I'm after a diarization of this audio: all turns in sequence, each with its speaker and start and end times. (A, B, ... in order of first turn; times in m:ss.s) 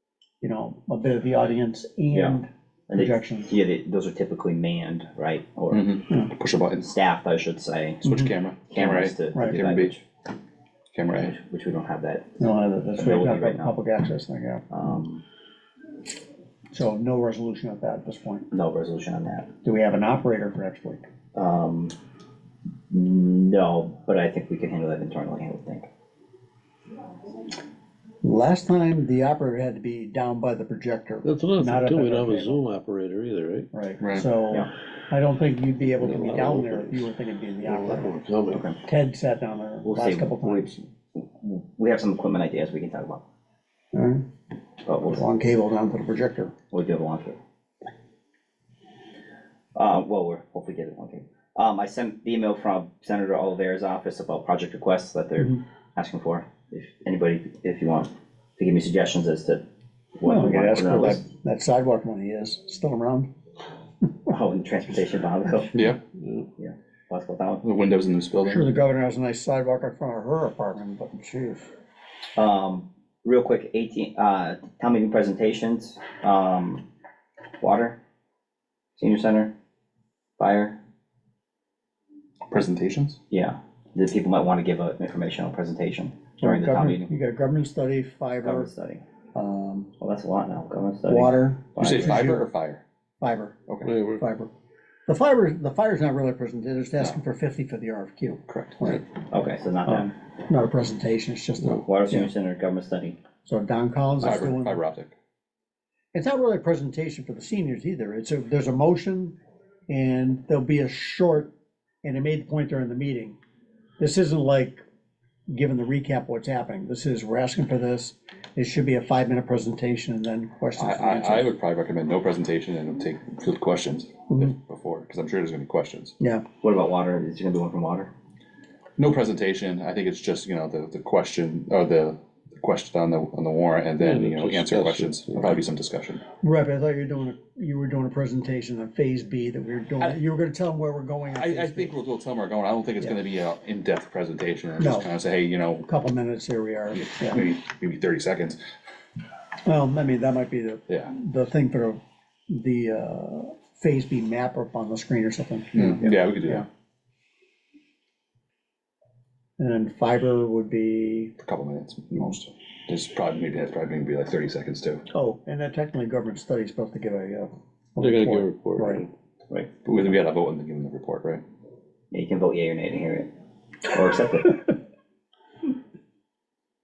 0:00.4-0:03.5 A
0:02.1-0:06.0 B
0:05.7-0:06.8 C
0:06.8-0:08.1 B
0:08.0-0:09.9 C
0:08.1-0:08.3 A
0:08.7-0:10.0 B
0:10.9-0:11.3 C
0:11.2-0:12.3 B
0:12.4-0:14.6 A
0:13.0-0:13.8 B
0:14.7-0:15.2 B
0:16.7-0:18.5 A
0:18.5-0:19.5 B
0:19.6-0:21.0 A
0:21.3-0:22.0 B
0:22.9-0:25.9 B
0:28.2-0:32.6 A
0:31.2-0:33.7 D
0:33.7-0:38.1 A
0:34.0-0:34.3 C
0:36.0-0:37.1 D
0:37.6-0:38.7 D
0:38.5-0:38.8 B
0:38.8-0:40.8 A
0:39.8-0:43.2 B
0:43.9-0:44.2 A
0:44.9-0:45.2 B
0:45.0-0:46.5 A
0:46.7-0:47.4 B
0:49.8-0:59.6 B
1:00.2-1:01.3 B
1:00.2-1:03.3 A
1:04.3-1:05.8 B
1:05.7-1:06.0 C
1:06.2-1:06.5 D
1:06.6-1:07.6 B
1:07.6-1:08.7 C
1:08.4-1:11.7 A
1:12.4-1:16.8 B
1:17.6-1:18.0 B
1:19.0-1:19.5 B
1:20.4-1:20.8 B
1:22.5-1:23.2 C
1:23.3-1:27.1 B
1:26.4-1:28.7 A
1:28.4-1:29.0 B
1:29.3-1:29.9 A
1:30.0-1:32.3 B
1:31.1-1:32.4 A
1:31.8-1:32.8 C
1:33.2-1:33.6 A
1:33.7-1:33.9 C
1:33.8-1:34.2 D
1:34.1-1:34.5 A
1:35.1-1:39.1 A
1:38.5-1:38.8 C
1:39.3-1:40.1 B
1:39.8-1:42.3 A
1:41.8-1:43.2 B
1:43.4-1:44.8 A
1:44.2-1:45.1 C
1:46.1-1:49.4 A
1:49.9-1:51.5 A
1:52.0-1:53.4 A
1:54.0-1:54.8 A
1:55.5-2:01.5 A
2:00.8-2:06.1 C
2:06.6-2:08.1 B
2:09.0-2:16.2 C
2:14.0-2:15.6 D
2:16.4-2:21.9 A
2:21.3-2:25.8 C
2:24.8-2:25.1 A
2:25.8-2:27.4 A
2:26.9-2:28.6 C
2:29.6-2:36.6 A
2:35.7-2:36.6 C
2:39.6-2:41.3 A
2:41.4-2:45.0 C
2:45.1-2:49.1 A
2:48.0-2:49.1 D
2:49.5-2:49.8 B
2:49.8-2:51.4 C
2:52.1-2:53.3 B
2:53.9-2:54.6 B